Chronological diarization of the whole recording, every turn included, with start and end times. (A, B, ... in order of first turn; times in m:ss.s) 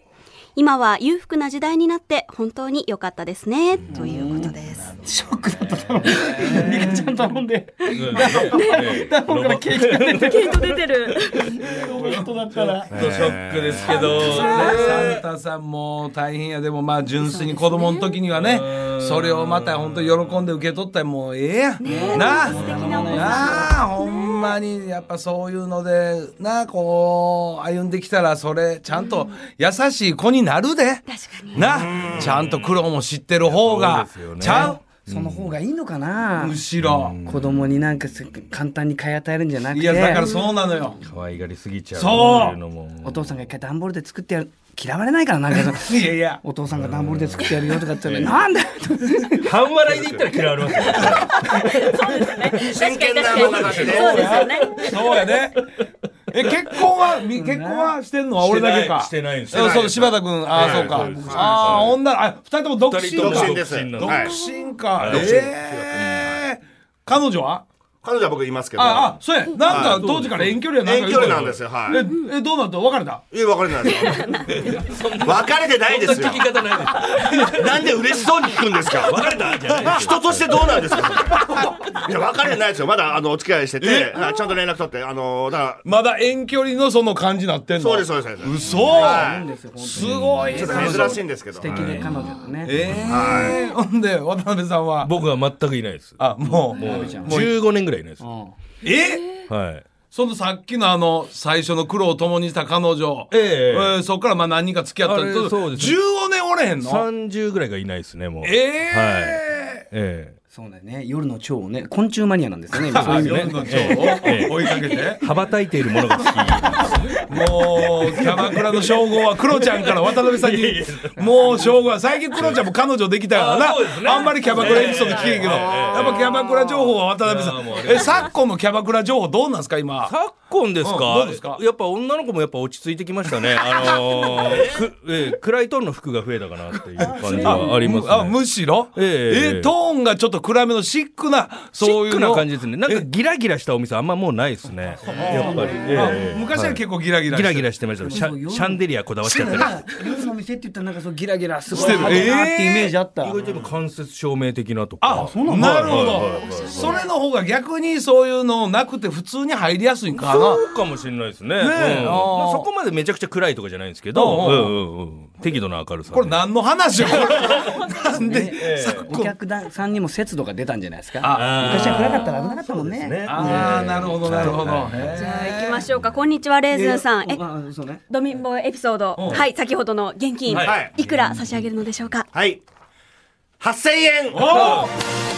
0:00.6-0:04.9 A
0:03.9-0:10.7 B
0:04.8-0:05.1 C
0:05.6-0:07.2 C
0:07.9-0:11.5 D
0:08.4-0:09.0 A
0:10.2-0:11.6 A
0:11.5-0:12.9 B
0:11.6-0:12.8 C
0:12.9-0:14.1 E
0:12.9-0:15.2 D
0:13.9-0:15.1 A
0:14.0-0:34.8 C
0:17.2-0:18.2 A
0:18.3-0:20.4 D
0:21.8-0:24.6 A
0:21.8-0:23.7 B
0:28.9-0:29.3 A
0:31.1-0:31.6 A
0:31.6-0:32.4 E
0:32.0-0:32.9 D
0:33.4-0:35.5 D
0:34.5-0:36.6 B
0:36.4-0:37.2 C
0:36.8-0:37.8 D
0:37.2-0:40.3 B
0:39.7-0:41.0 C
0:40.1-0:40.6 A
0:41.0-0:43.3 D
0:41.9-0:42.6 C
0:43.0-0:49.5 B
0:45.6-0:46.4 C
0:46.7-0:48.4 D
0:49.4-0:52.0 D
0:51.5-0:55.2 A
0:52.5-0:54.5 E
0:53.4-0:54.2 D
0:53.5-0:55.6 C
0:56.3-1:07.6 C
0:57.3-0:58.0 B
0:58.4-1:02.0 D
1:00.5-1:01.9 E
1:02.9-1:04.3 D
1:03.2-1:04.4 E
1:05.0-1:06.3 D
1:05.0-1:06.4 E
1:08.0-1:12.1 E
1:08.8-1:13.2 C
1:09.6-1:10.6 D
1:11.9-1:12.2 A
1:13.3-1:16.5 E
1:14.0-1:14.5 A
1:14.5-1:17.9 D
1:17.4-1:25.8 E
1:18.9-1:20.8 D
1:23.8-1:24.2 C
1:25.8-1:29.3 C
1:27.8-1:29.5 E
1:28.8-1:32.7 B
1:29.9-1:31.2 C
1:29.9-1:30.7 D
1:30.5-1:32.0 E
1:31.7-1:32.0 D
1:32.6-1:35.1 C
1:32.8-1:33.4 D
1:33.0-1:33.6 E
1:35.0-1:38.2 D
1:36.2-1:37.6 C
1:36.8-1:37.5 B
1:38.2-1:38.5 B
1:38.8-1:39.4 C
1:39.5-1:39.8 D
1:40.1-1:47.1 C
1:43.3-1:44.0 D
1:45.0-1:46.0 D
1:46.8-1:50.4 D
1:48.4-1:49.8 C
1:50.5-1:54.2 B
1:52.9-1:55.3 C
1:52.9-2:01.7 D
1:56.1-2:10.1 C
2:02.3-2:02.7 D
2:03.3-2:08.3 D
2:05.4-2:06.4 E
2:10.0-2:19.7 D
2:10.8-2:11.6 C
2:13.8-2:14.2 C
2:14.4-2:14.8 E
2:17.0-2:17.9 B
2:17.0-2:23.1 C
2:21.8-2:29.9 D
2:25.0-2:26.4 B
2:25.0-2:28.2 C
2:28.0-2:33.4 B
2:31.7-2:32.9 C
2:31.7-2:32.4 D
2:33.2-2:37.0 D
2:35.0-2:40.6 C
2:35.1-2:36.3 B
2:36.2-2:37.1 A
2:40.2-2:46.4 D
2:41.6-2:42.7 C
2:44.1-2:44.8 C
2:46.1-2:49.3 C
2:47.0-2:49.1 D
2:48.1-2:54.6 B
2:51.2-2:52.2 C
2:51.2-2:55.2 D
2:53.2-2:55.8 C
2:55.1-2:57.4 A
2:56.7-2:58.0 B
2:58.1-3:02.3 A
2:59.2-2:59.4 C
3:00.5-3:00.7 C
3:00.5-3:00.9 E
3:00.5-3:00.9 D
3:02.3-3:02.6 E
3:03.6-3:04.8 E
3:04.3-3:04.9 C